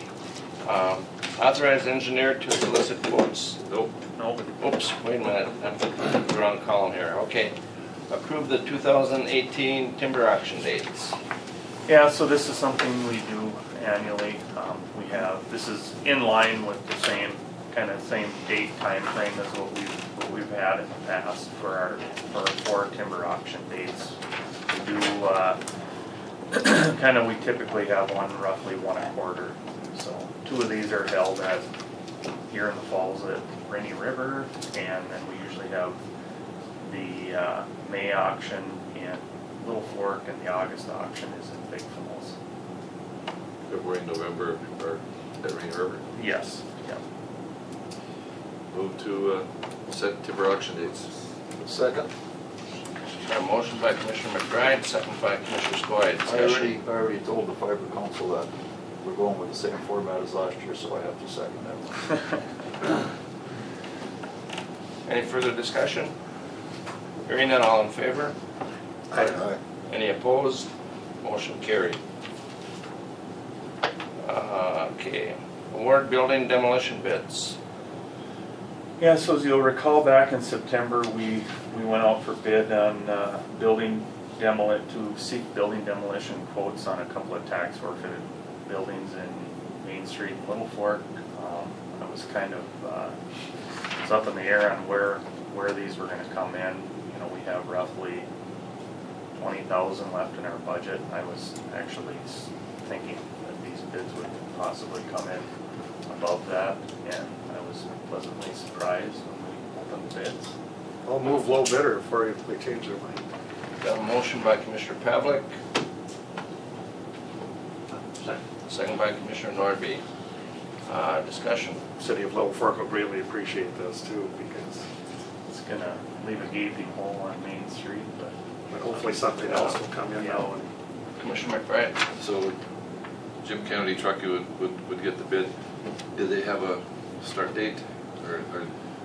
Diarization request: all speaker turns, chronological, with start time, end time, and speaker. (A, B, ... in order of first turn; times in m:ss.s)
0:00.6-0:03.6 A
0:03.7-0:03.9 B
0:04.2-0:04.5 C
0:04.6-0:07.5 A
0:08.1-0:11.2 A
0:11.8-0:24.2 C
0:24.7-0:25.6 C
0:26.5-0:31.7 C
0:32.5-0:36.0 C
0:36.8-0:42.4 C
0:43.7-0:46.0 B
0:46.1-0:47.0 C
0:48.7-0:51.1 B
0:51.6-0:52.1 D
0:53.2-0:56.8 A
0:56.2-0:58.5 D
0:59.0-1:02.1 D
1:05.0-1:06.1 A
1:07.2-1:08.4 A
1:09.1-1:09.6 D
1:09.9-1:10.7 A
1:11.2-1:12.0 A
1:14.2-1:17.6 A
1:19.0-1:33.2 C
1:34.0-1:38.3 C
1:39.4-1:45.5 C
1:46.1-1:50.5 C
1:51.0-1:53.2 E
1:53.8-1:55.5 A
1:58.7-2:00.0 A
2:00.9-2:01.8 A
2:02.0-2:04.8 E
2:05.5-2:08.3 C
2:08.7-2:10.7 E
2:09.5-2:09.8 A
2:10.1-2:10.5 C
2:11.2-2:12.0 A
2:12.2-2:12.6 B
2:13.4-2:15.5 B
2:16.1-2:18.7 B